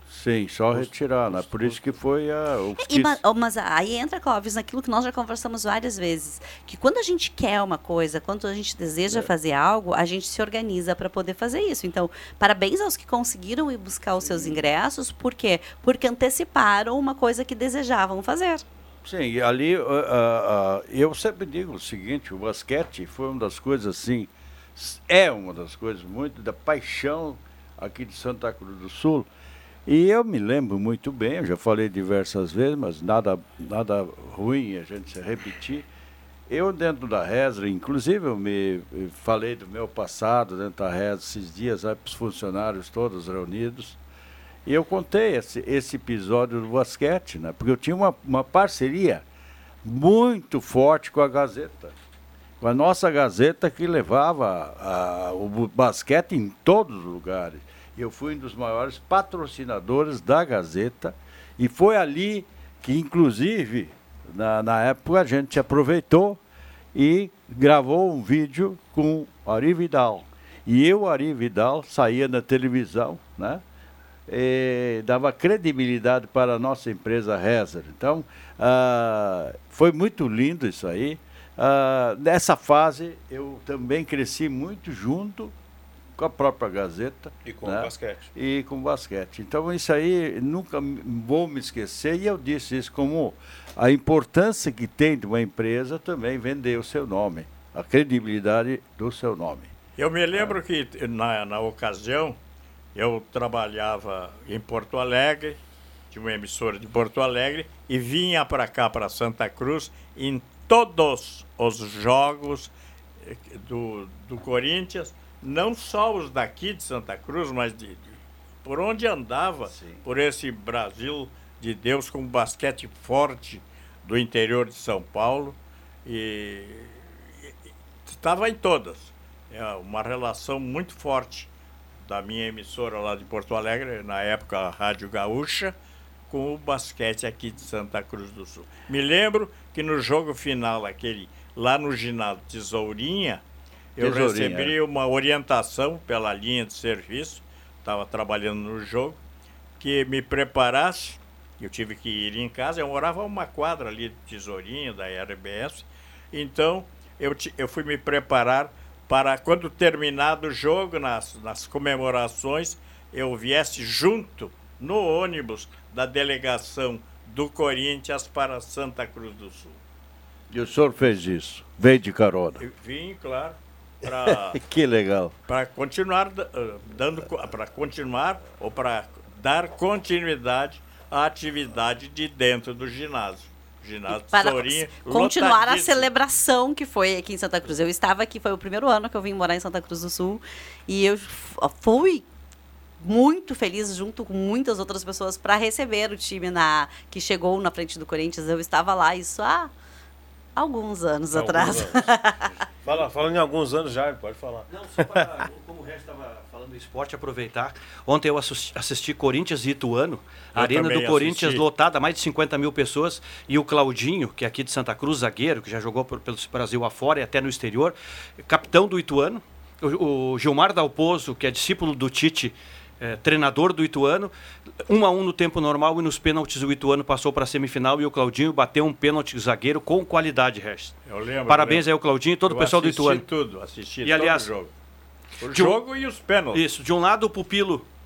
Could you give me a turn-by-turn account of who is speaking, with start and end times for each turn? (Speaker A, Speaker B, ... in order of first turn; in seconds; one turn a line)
Speaker A: 0.1-3.2
Speaker B: 0.7-2.0
Speaker C: 2.8-18.6
Speaker A: 14.2-14.7
Speaker A: 19.0-29.3
Speaker A: 29.9-35.9
Speaker A: 36.5-44.0
Speaker A: 44.6-49.2
Speaker A: 49.8-51.9
Speaker A: 52.6-66.4
Speaker A: 66.9-73.6
Speaker A: 74.3-85.5
Speaker A: 86.2-99.7
Speaker B: 87.4-88.3
Speaker D: 100.0-102.4
Speaker D: 102.9-105.6
Speaker D: 106.1-112.7
Speaker D: 113.2-127.5
Speaker A: 119.7-120.0
Speaker D: 128.1-131.5
Speaker D: 132.0-135.7
Speaker D: 136.3-143.4
Speaker D: 144.0-149.2
Speaker A: 144.0-144.8
Speaker D: 149.8-169.8
Speaker A: 170.5-172.7
Speaker D: 172.6-174.6
Speaker A: 174.1-175.3
Speaker D: 175.5-186.1
Speaker C: 184.1-192.2
Speaker C: 193.0-199.7
Speaker C: 200.6-202.4
Speaker B: 201.3-205.4
Speaker E: 204.7-224.3
Speaker D: 210.5-211.6
Speaker E: 224.8-230.9
Speaker D: 231.1-231.9
Speaker E: 231.5-233.2
Speaker D: 232.4-234.7
Speaker E: 234.0-234.5
Speaker D: 235.4-236.6
Speaker E: 235.5-235.8
Speaker E: 236.5-237.8